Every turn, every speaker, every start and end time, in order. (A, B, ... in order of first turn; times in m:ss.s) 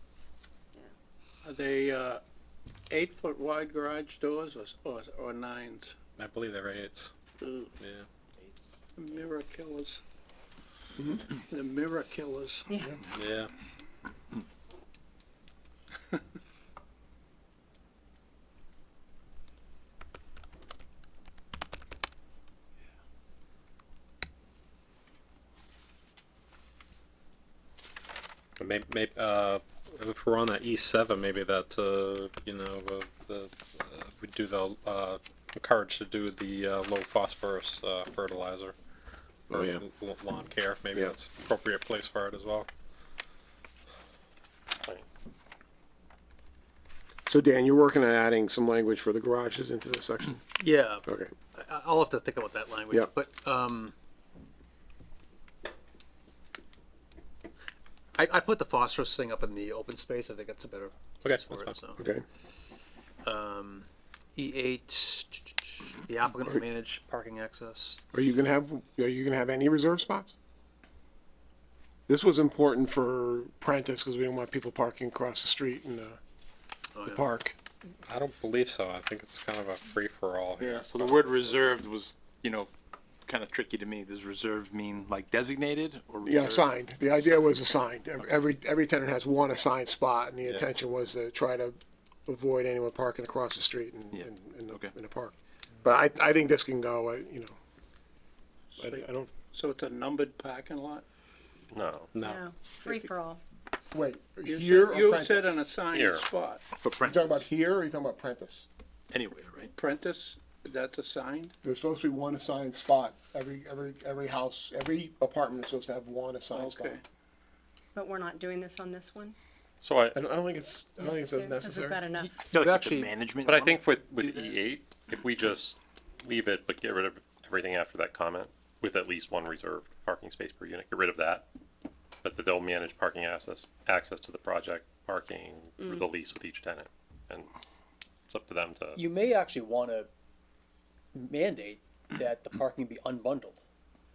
0:01.4-0:02.2 A
0:02.9-0:06.0 A
0:06.2-0:07.2 B
0:07.4-0:07.7 A
0:07.8-0:08.1 B
0:09.0-0:10.0 A
0:11.0-0:11.2 C
0:11.4-0:12.7 A
0:12.7-0:13.0 D
0:13.1-0:13.5 B
0:28.6-0:38.8 B
0:39.5-0:39.9 C
0:39.5-0:42.7 B
0:47.3-0:51.3 C
0:50.6-0:54.0 E
0:58.2-1:02.0 E
1:01.2-1:01.8 B
1:02.0-1:02.2 C
1:03.2-1:08.0 E
1:08.1-1:10.4 C
1:12.1-1:16.2 C
1:17.0-1:17.2 E
1:17.0-1:17.6 C
1:18.1-1:20.9 B
1:20.6-1:21.4 C
1:20.6-1:22.7 F
1:23.3-1:27.5 F
1:26.2-1:37.6 C
1:30.4-1:30.7 F
1:34.1-1:34.9 F
1:38.8-1:41.0 A
1:38.8-1:39.3 C
1:41.7-1:42.1 G
1:42.2-1:42.4 B
1:42.2-1:43.4 D
1:42.8-1:43.1 A
1:43.9-1:45.6 C
1:44.5-1:46.6 A
1:45.9-1:46.3 G
1:46.8-1:47.5 F
1:47.0-1:48.7 C
1:49.1-1:49.7 F
1:49.8-1:51.5 A
1:51.6-1:57.0 C
1:56.5-1:57.0 A
1:57.9-1:59.4 D
1:59.8-2:00.2 G
2:00.2-2:02.0 C
2:01.0-2:02.3 D
2:02.2-2:03.1 E
2:02.3-2:04.6 F
2:03.4-2:11.5 G
2:12.2-2:17.5 G
2:18.3-2:19.0 G
2:19.0-2:20.1 E
2:21.1-2:23.6 E